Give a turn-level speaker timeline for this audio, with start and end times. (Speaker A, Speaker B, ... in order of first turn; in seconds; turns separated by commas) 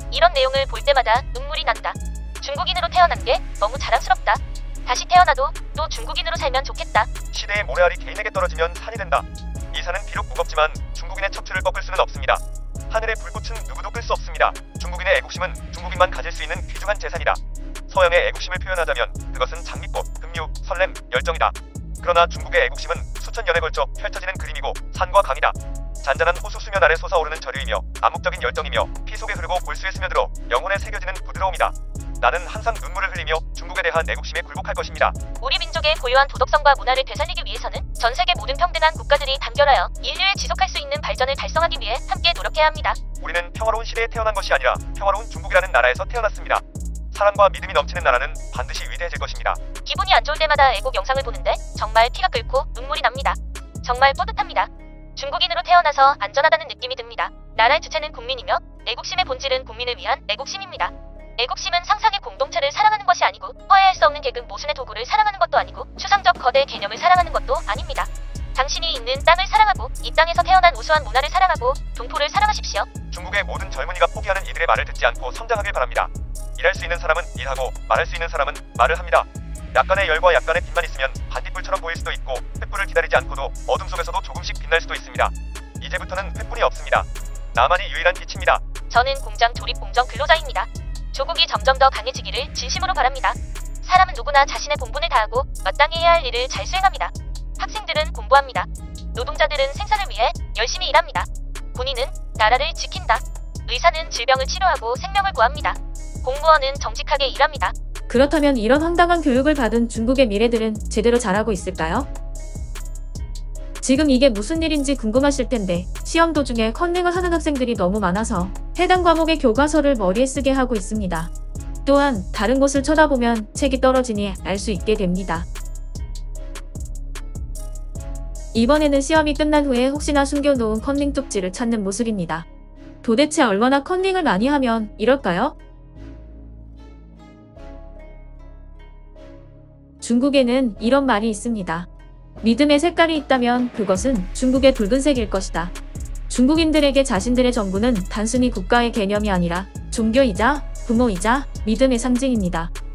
Speaker A: 0.1-7.1, Speaker B: 7.3-35.2, Speaker A: 35.4-43.0, Speaker B: 43.2-49.6, Speaker A: 49.8-72.9, Speaker B: 73.1-88.6, Speaker A: 88.9-107.7, Speaker C: 108.1-112.1, Speaker C: 113.8-121.3, Speaker C: 121.8-125.5, Speaker C: 128.5-132.4, Speaker C: 133.0-135.5, Speaker C: 140.0-141.9, Speaker C: 142.4-145.7, Speaker C: 146.3-152.7